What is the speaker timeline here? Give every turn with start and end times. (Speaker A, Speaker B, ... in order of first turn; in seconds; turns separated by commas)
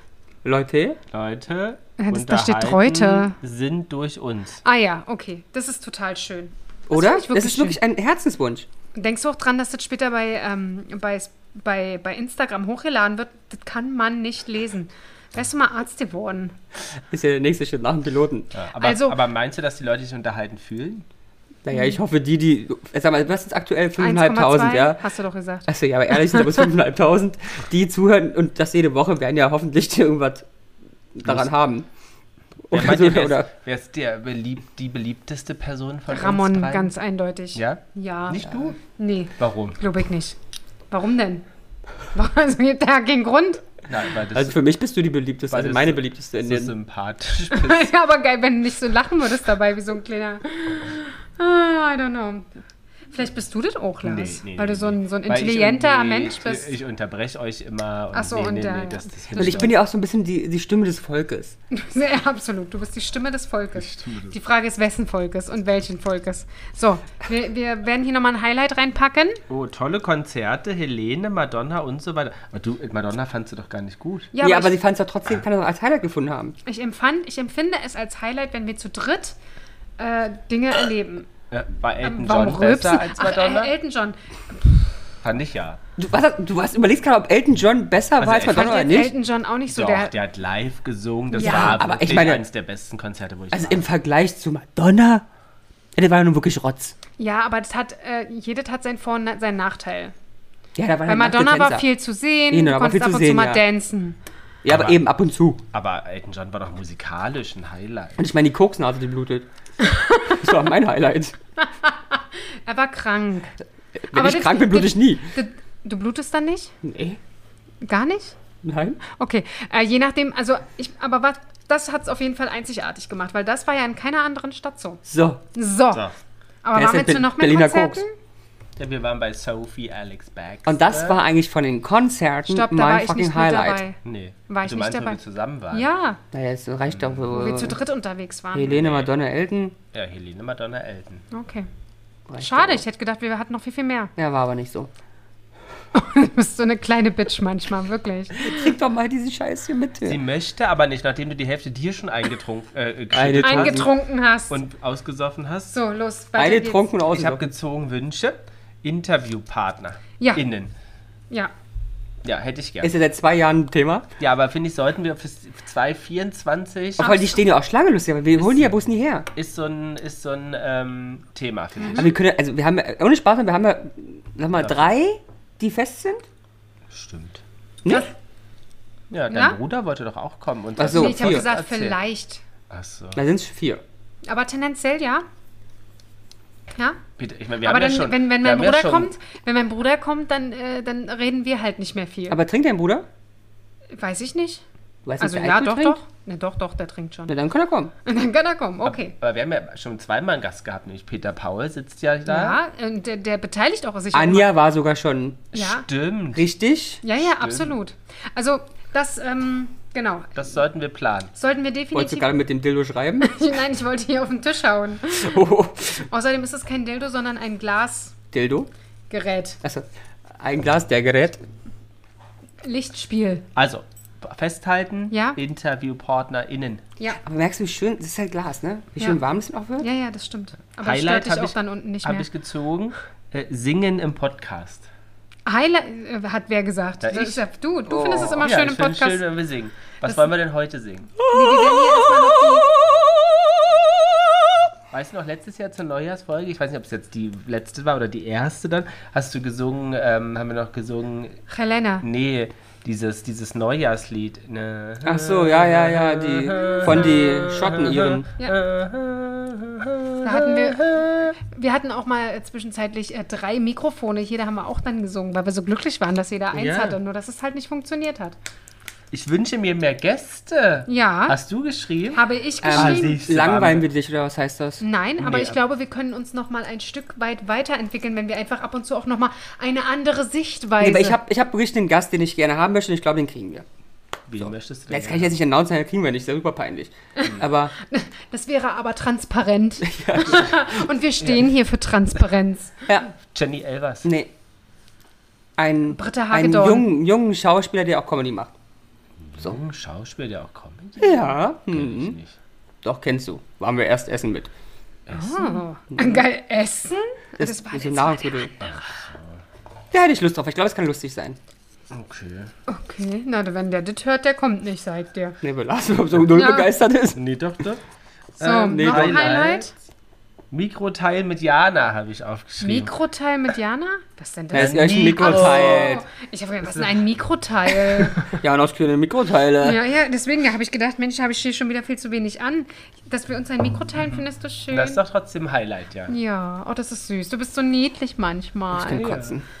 Speaker A: 0.4-1.0, Speaker B: 1.1-4.6, Speaker C: 2.0-3.4, Speaker C: 4.6-7.8, Speaker A: 6.9-8.7, Speaker C: 8.9-16.5, Speaker A: 17.1-18.5, Speaker B: 18.5-21.0, Speaker C: 18.8-19.2, Speaker A: 21.6-25.0, Speaker C: 21.7-22.0, Speaker C: 24.0-26.7, Speaker A: 25.7-30.4, Speaker A: 31.1-31.9, Speaker A: 32.6-33.5, Speaker B: 32.7-36.9, Speaker C: 36.1-40.4, Speaker B: 37.5-38.8, Speaker B: 39.4-39.8, Speaker C: 40.9-41.4, Speaker C: 42.1-43.6, Speaker B: 43.9-44.6, Speaker A: 44.3-46.7, Speaker B: 45.5-47.9, Speaker C: 47.5-52.5, Speaker C: 53.1-56.8, Speaker B: 54.0-59.7, Speaker C: 58.1-59.7, Speaker A: 59.4-61.5, Speaker C: 61.7-69.4, Speaker B: 63.8-64.3, Speaker B: 69.5-74.3, Speaker C: 74.3-74.8, Speaker A: 74.4-76.5, Speaker C: 76.7-79.3, Speaker C: 80.0-81.3, Speaker B: 81.5-83.7, Speaker C: 82.0-84.9, Speaker B: 85.2-85.8, Speaker A: 86.0-89.1, Speaker B: 88.2-89.0, Speaker C: 88.5-90.1, Speaker B: 89.7-93.8, Speaker C: 91.3-91.8, Speaker A: 91.3-92.4, Speaker A: 93.5-95.2, Speaker A: 96.0-96.9, Speaker C: 97.2-100.1, Speaker A: 100.8-101.8, Speaker C: 101.1-104.2, Speaker A: 102.5-103.6, Speaker A: 104.6-105.6, Speaker B: 104.7-105.0, Speaker B: 105.7-108.2, Speaker A: 108.2-109.5, Speaker C: 109.8-110.3, Speaker A: 110.2-111.3, Speaker C: 111.6-113.5, Speaker A: 114.1-115.3, Speaker C: 114.1-116.7, Speaker A: 116.8-117.2, Speaker C: 117.8-118.3, Speaker A: 118.6-119.0, Speaker C: 119.0-125.0, Speaker A: 125.0-125.4, Speaker C: 125.5-126.1, Speaker C: 126.6-128.1, Speaker A: 126.7-128.0, Speaker B: 128.8-131.2, Speaker A: 130.7-133.8, Speaker C: 132.5-134.0, Speaker B: 134.0-135.9, Speaker C: 134.5-135.2, Speaker C: 135.7-136.2, Speaker A: 136.3-137.8, Speaker B: 136.9-137.3, Speaker C: 137.3-138.7, Speaker A: 138.5-139.8, Speaker B: 138.6-139.1, Speaker B: 139.9-141.2, Speaker C: 141.3-141.7, Speaker A: 142.3-142.8, Speaker C: 142.4-144.1, Speaker A: 144.2-144.9, Speaker C: 145.9-148.7, Speaker A: 148.3-150.2, Speaker B: 150.0-153.9, Speaker A: 153.1-153.9, Speaker C: 153.4-154.6, Speaker B: 154.5-155.7, Speaker C: 155.7-156.9, Speaker A: 156.4-157.4, Speaker B: 157.1-160.7, Speaker B: 162.2-162.9, Speaker A: 162.8-164.1, Speaker B: 164.2-167.1, Speaker A: 167.0-169.3, Speaker C: 167.0-167.4, Speaker B: 168.4-168.7, Speaker B: 169.3-172.2, Speaker C: 171.8-172.1, Speaker A: 171.9-176.2, Speaker B: 176.9-177.4, Speaker B: 179.1-182.0, Speaker C: 179.3-179.6, Speaker A: 180.8-181.5, Speaker C: 180.8-182.4, Speaker B: 182.7-183.2, Speaker A: 183.1-183.8, Speaker C: 184.2-185.2, Speaker C: 186.7-187.0, Speaker B: 187.2-189.1, Speaker C: 187.6-192.4, Speaker A: 192.3-193.1, Speaker C: 193.9-194.6, Speaker A: 195.1-196.0, Speaker C: 195.2-197.3, Speaker A: 197.3-197.9, Speaker C: 198.0-199.1, Speaker B: 198.8-202.6, Speaker C: 202.3-204.5, Speaker A: 204.1-205.4, Speaker B: 205.5-206.5, Speaker C: 205.5-205.9, Speaker A: 206.3-207.0, Speaker C: 207.0-210.4, Speaker B: 207.2-207.8, Speaker B: 210.3-211.3, Speaker C: 211.3-212.4, Speaker A: 211.9-213.3, Speaker C: 213.2-218.2, Speaker A: 215.1-216.0, Speaker A: 218.3-218.7, Speaker C: 219.1-219.6, Speaker A: 220.4-221.4, Speaker C: 222.6-223.4, Speaker B: 223.5-226.8, Speaker C: 225.1-225.4, Speaker A: 227.2-229.9, Speaker C: 229.8-232.3, Speaker B: 230.8-234.9, Speaker C: 235.4-239.2, Speaker B: 237.0-237.4, Speaker A: 237.9-238.4, Speaker B: 238.4-241.1, Speaker C: 241.2-242.7, Speaker B: 244.9-251.4, Speaker C: 251.5-252.0, Speaker B: 252.0-261.4, Speaker A: 255.0-258.3, Speaker C: 260.2-268.4, Speaker B: 266.5-267.0, Speaker B: 269.1-273.9, Speaker C: 270.9-271.4, Speaker C: 272.1-273.2, Speaker A: 272.6-274.8, Speaker C: 274.8-281.2, Speaker B: 275.2-275.6, Speaker A: 280.8-283.6, Speaker B: 284.3-285.3, Speaker A: 284.9-287.7, Speaker C: 287.2-292.8, Speaker A: 289.8-290.6, Speaker B: 293.2-294.1, Speaker A: 294.0-294.3, Speaker A: 295.6-298.5, Speaker C: 295.9-296.9, Speaker B: 299.2-302.3, Speaker A: 301.0-302.2, Speaker A: 302.8-304.5, Speaker B: 305.1-305.4, Speaker C: 305.1-308.6, Speaker A: 305.9-306.2, Speaker A: 307.4-308.5, Speaker B: 308.6-309.4, Speaker A: 309.9-311.4, Speaker B: 311.9-312.5, Speaker C: 312.7-315.4, Speaker A: 315.4-317.2, Speaker C: 316.3-316.7, Speaker B: 317.1-317.8, Speaker B: 318.4-319.7, Speaker C: 318.4-319.7, Speaker A: 318.6-319.4, Speaker B: 320.5-322.9, Speaker C: 322.6-328.3, Speaker A: 324.5-326.0, Speaker B: 324.5-325.9, Speaker B: 326.7-327.0, Speaker A: 328.3-329.8, Speaker C: 329.6-335.0, Speaker B: 334.1-336.1, Speaker C: 336.1-339.1, Speaker A: 338.7-339.4, Speaker B: 338.9-339.4